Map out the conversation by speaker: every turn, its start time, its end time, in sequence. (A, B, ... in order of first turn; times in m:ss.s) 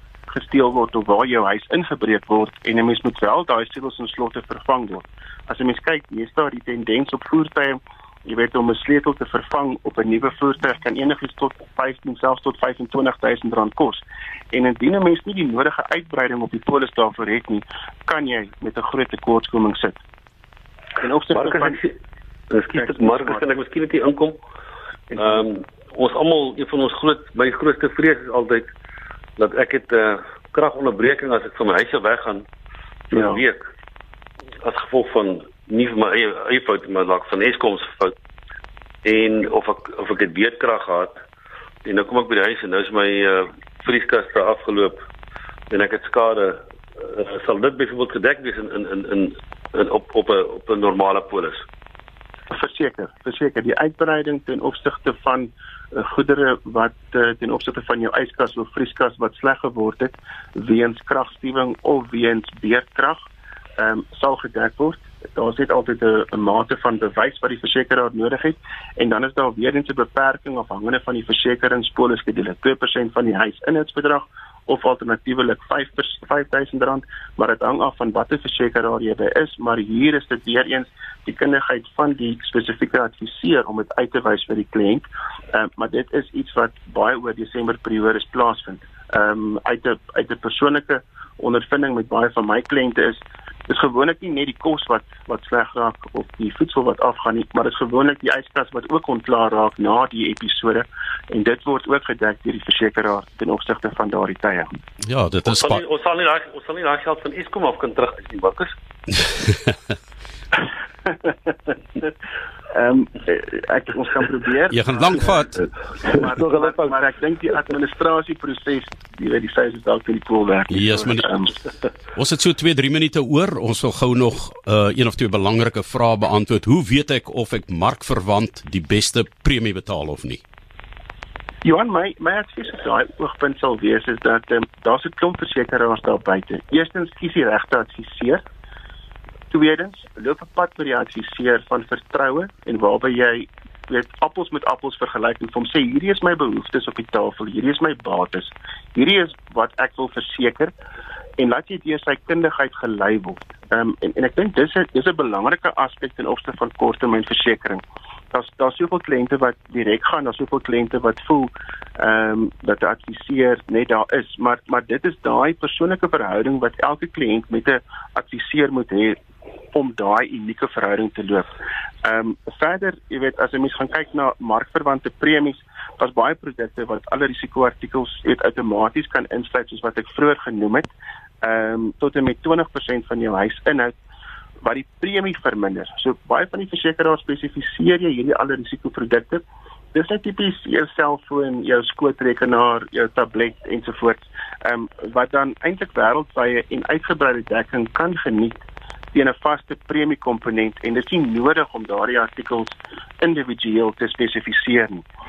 0:00.3-0:20.0 A
0:21.0-0:21.8 A
0:21.3-0:21.9 B
0:22.5-0:24.4 B
0:22.7-0:23.4 A
0:25.1-0:28.7 B
0:29.4-0:32.4 B
0:33.1-0:33.6 B
0:33.1-0:33.4 A
0:34.6-0:38.1 B
0:39.0-0:41.1 B
0:41.8-0:45.0 B
0:45.7-0:51.6 B
0:52.5-1:03.2 A
1:03.8-1:44.7 A
1:45.0-1:45.8 C
1:45.5-1:48.7 B
1:51.1-1:52.1 A
1:52.7-1:55.2 A
1:54.7-1:55.7 C
1:56.0-2:01.5 A
1:56.4-1:56.9 B
2:00.7-2:01.3 C
2:02.1-2:10.4 C
2:11.6-2:18.4 A
2:19.5-2:30.7 A
2:31.4-2:49.2 A
2:49.7-2:51.5 A
2:52.0-3:00.9 A
3:01.4-3:04.0 A
3:04.6-3:25.1 A